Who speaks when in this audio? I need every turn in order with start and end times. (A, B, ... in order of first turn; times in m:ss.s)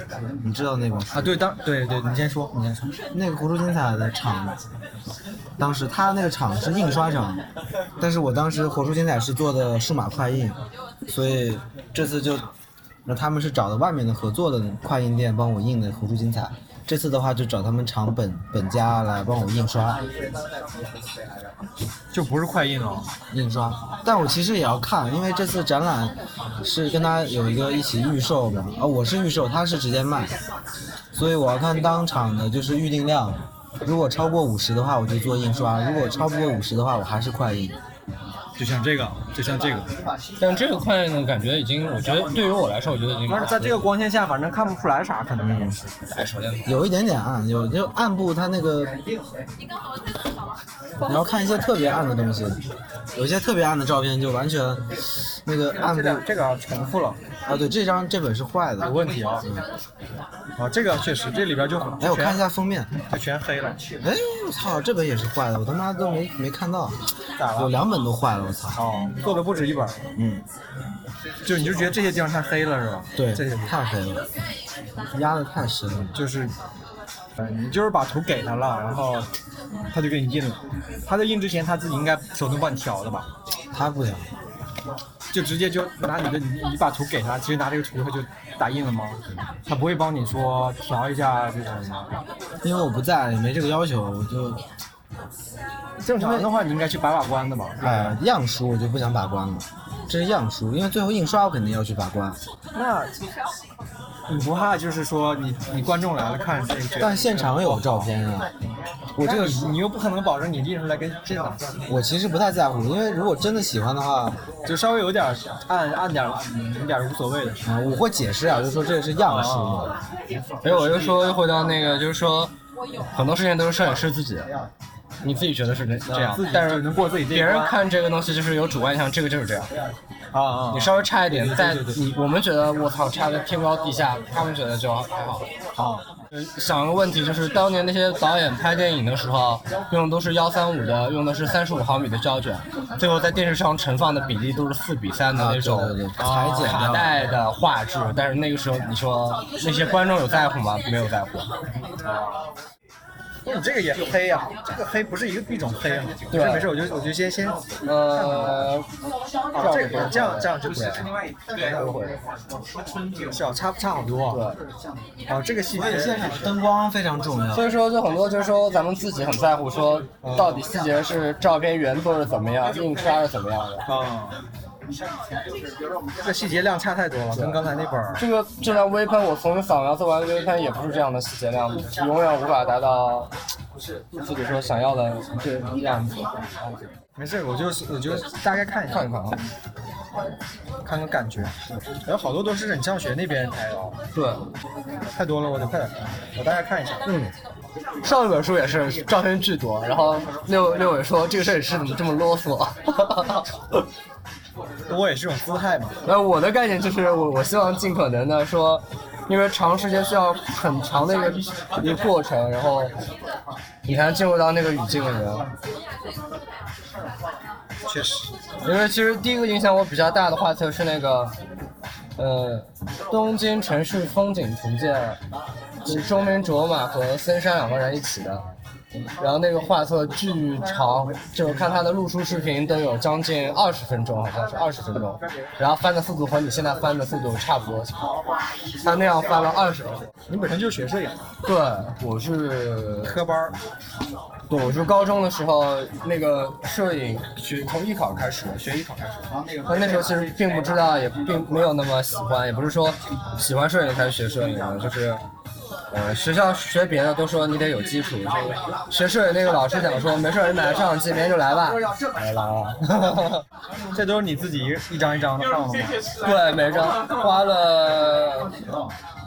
0:00.4-0:01.4 A
0:01.1-0:02.8 B
0:03.1-0:04.6 A
0:05.6-0:07.4 A
0:08.0-0:12.5 A
0:13.0-0:20.0 A
0:22.1-0:23.1 B
0:23.3-0:30.3 A
0:31.1-0:37.8 A
0:38.6-0:39.9 B
0:40.4-0:43.8 C
0:43.3-0:45.8 B
0:45.4-0:45.8 A
0:46.1-0:46.6 C
0:46.6-0:49.0 A
0:51.0-0:52.6 A
0:53.1-0:56.2 A
0:55.8-0:57.2 B
0:57.4-0:58.9 A
0:58.8-0:59.5 B
1:00.6-1:02.4 B
1:02.0-1:02.9 A
1:03.0-1:03.8 B
1:04.0-1:08.8 A
1:07.4-1:07.7 B
1:08.8-1:10.0 B
1:10.2-1:10.4 A
1:11.4-1:13.8 B
1:13.2-1:14.2 A
1:15.1-1:16.2 A
1:16.1-1:16.5 B
1:17.4-1:19.3 B
1:19.9-1:23.3 B
1:23.7-1:24.3 A
1:25.3-1:32.1 B
1:32.6-1:34.6 A
1:36.0-1:38.2 B
1:36.1-1:36.5 A
1:37.8-1:42.4 A
1:42.7-1:43.1 B
1:44.3-1:48.1 B
1:47.0-1:48.5 A
1:49.2-1:49.8 A
1:49.2-1:51.8 B
1:51.9-1:54.4 A
1:54.6-1:57.6 B
1:57.6-2:00.0 A
1:59.2-2:00.0 B
2:00.6-2:02.5 C
2:03.1-2:04.5 C
2:05.2-2:09.7 C
2:06.1-2:07.8 B
2:10.3-2:12.0 B
2:10.7-2:15.4 C
2:15.8-2:16.0 B
2:16.3-2:31.5 C
2:25.3-2:27.0 A
2:26.2-2:27.2 B
2:32.0-2:32.4 B
2:33.4-2:38.7 B
2:36.3-2:36.7 C
2:37.8-2:38.9 C
2:39.5-2:41.1 B
2:39.6-2:41.0 C
2:41.7-2:42.2 C
2:43.3-2:44.4 B
2:44.3-2:44.6 C
2:45.3-2:46.6 B
2:45.7-2:47.6 A
2:47.5-2:53.8 C
2:50.2-2:50.6 B
2:53.8-2:54.4 B
2:56.2-2:58.2 B
2:58.2-3:03.3 C
3:04.1-3:06.4 C
3:07.2-3:09.1 B
3:08.9-3:09.4 C
3:10.8-3:14.0 B
3:14.1-3:14.4 C
3:15.1-3:17.0 B
3:17.0-3:17.3 C
3:18.0-3:23.5 C
3:24.9-3:26.0 B
3:26.0-3:32.9 C
3:33.8-3:35.5 C
3:37.9-3:38.3 B
3:38.6-3:41.3 C
3:42.2-3:45.2 C
3:45.8-3:48.4 C
3:49.2-3:58.0 C
3:58.8-4:00.0 C
4:00.3-4:01.3 B
4:01.4-4:03.2 C
4:03.0-4:03.5 B
4:04.5-4:09.1 C
4:09.6-4:15.2 C
4:15.9-4:23.4 C
4:23.9-4:26.0 B
4:26.2-4:28.5 C